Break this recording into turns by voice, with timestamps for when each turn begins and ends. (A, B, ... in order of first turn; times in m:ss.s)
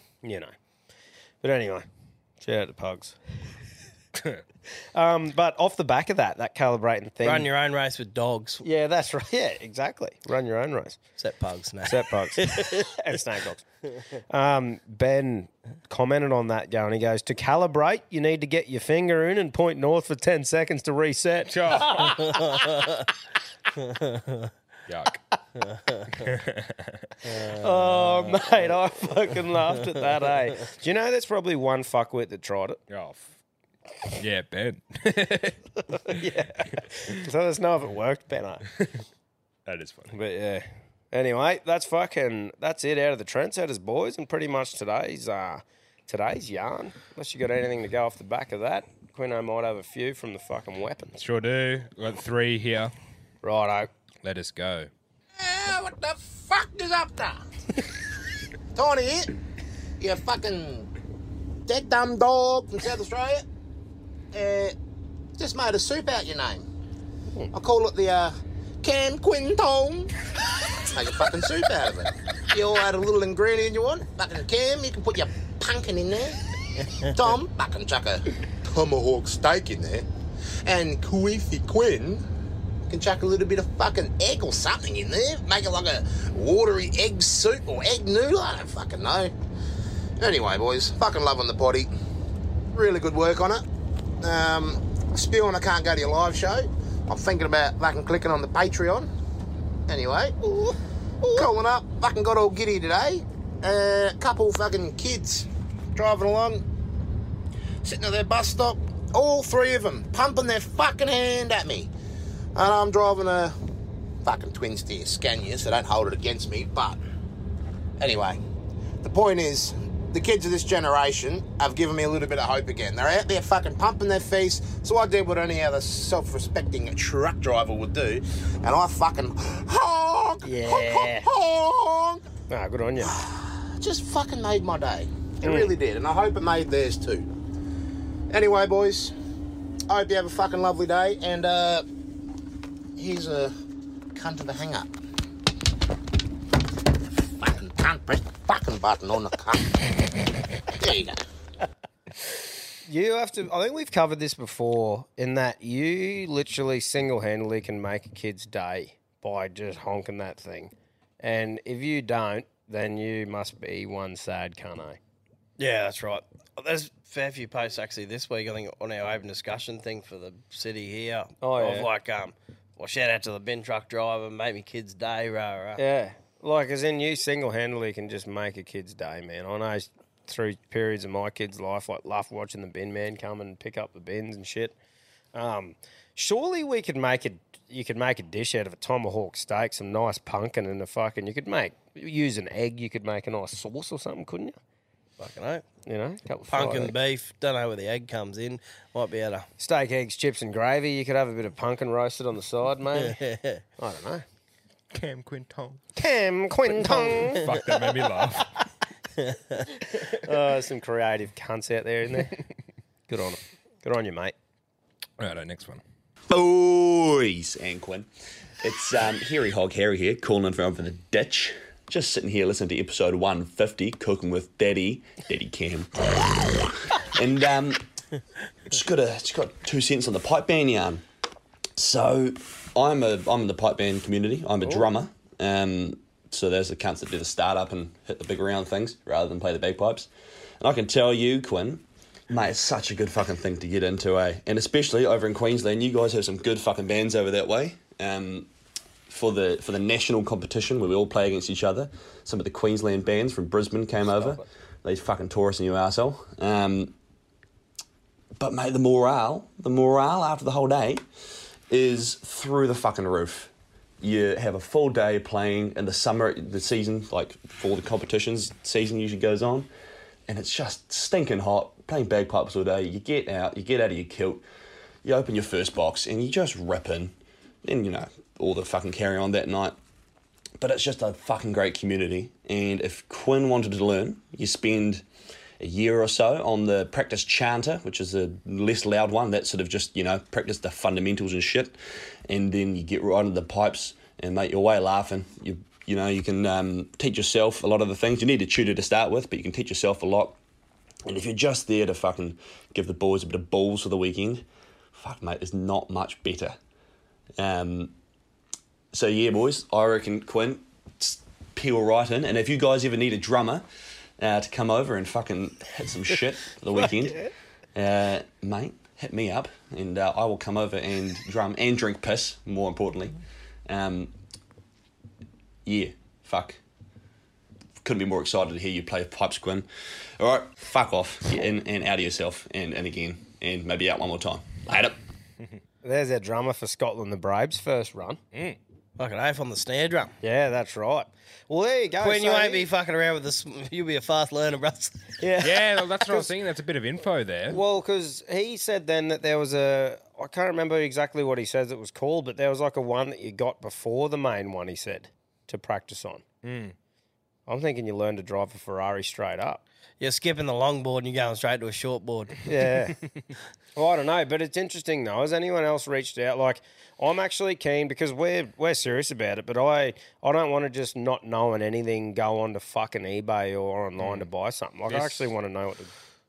0:00.2-0:00.5 A
0:01.4-0:01.9 A
0:02.4-0:03.2 A
0:04.9-0:07.5 A
0:07.2-0:08.6 B
0:08.6-0:11.0 A
0:11.2-0:12.9 B
0:11.8-0:13.6 A
0:14.3-0:22.2 A
0:21.5-0:22.2 C
0:22.0-0:23.1 B
0:23.8-0:24.5 B
0:24.9-0:25.2 C
0:25.6-0:26.3 B
0:26.2-0:26.9 C
0:27.2-0:27.8 B
0:27.3-0:32.8 A
0:32.9-0:33.4 C
0:34.1-0:36.2 C
0:36.0-0:38.6 A
0:39.6-0:40.2 C
0:40.1-0:51.2 A
0:51.2-0:52.9 C
0:53.4-0:53.9 A
0:54.2-0:54.9 C
0:55.4-0:57.4 D
0:58.7-0:59.3 D
1:00.0-1:00.9 D
1:01.7-1:03.4 D
1:04.3-1:04.7 D
1:05.4-1:06.6 D
1:07.5-1:10.1 D
1:10.8-1:16.4 D
1:17.0-1:20.0 D
1:20.6-1:22.2 D
1:22.9-1:29.3 D
1:30.2-1:31.9 D
1:32.7-1:33.6 D
1:34.2-1:39.1 D
1:39.9-1:46.6 D
1:47.8-1:51.9 D
1:52.5-1:53.5 D
1:54.2-1:57.0 D
1:58.0-1:58.4 D
1:59.0-2:12.2 D
2:10.4-2:11.3 A
2:12.5-2:13.2 A
2:13.0-2:17.3 D
2:15.4-2:15.7 A
2:18.3-2:19.1 D
2:19.9-2:21.8 D
2:23.0-2:23.5 D
2:24.1-2:24.9 D
2:27.2-2:29.9 D
2:30.7-2:31.2 D
2:32.8-2:45.0 A
2:45.6-2:55.8 B
2:51.4-2:51.9 A
2:55.8-3:04.8 A
3:05.3-3:14.6 A
3:15.2-3:15.6 B
3:15.8-3:16.9 A
3:16.5-3:19.5 B
3:19.6-3:23.2 A
3:22.9-3:23.6 B
3:23.8-3:24.2 A
3:24.9-3:25.8 C
3:25.9-3:28.3 A
3:26.7-3:28.5 C
3:29.2-3:29.7 B
3:29.9-3:32.4 A
3:33.1-3:34.3 A
3:35.2-3:35.8 C
3:36.3-3:38.1 E
3:38.6-3:47.8 E
3:48.7-3:51.0 E
3:51.8-4:00.1 E
4:00.6-4:08.5 E
4:09.1-4:16.9 E
4:14.1-4:14.4 A
4:18.4-4:21.0 E
4:21.7-4:29.7 E
4:30.3-4:34.4 E
4:35.0-4:39.8 E
4:40.6-4:45.0 E
4:45.6-5:00.4 E
5:01.0-5:06.6 E
5:07.4-5:07.9 E
5:08.9-5:13.6 E
5:14.2-5:24.1 E
5:17.0-5:17.3 A
5:25.6-5:26.6 E
5:27.8-5:29.7 E
5:30.2-5:35.0 E
5:35.8-5:38.2 A
5:39.0-5:40.1 B
5:40.2-5:42.7 A
5:42.0-5:45.0 B
5:45.2-5:46.3 A
5:45.4-5:47.6 C
5:47.5-5:56.2 A
5:56.4-5:56.7 C
5:57.5-5:59.6 A
6:00.0-6:02.4 B
6:02.4-6:03.0 A
6:03.8-6:15.9 A
6:14.0-6:14.3 C
6:14.9-6:15.3 C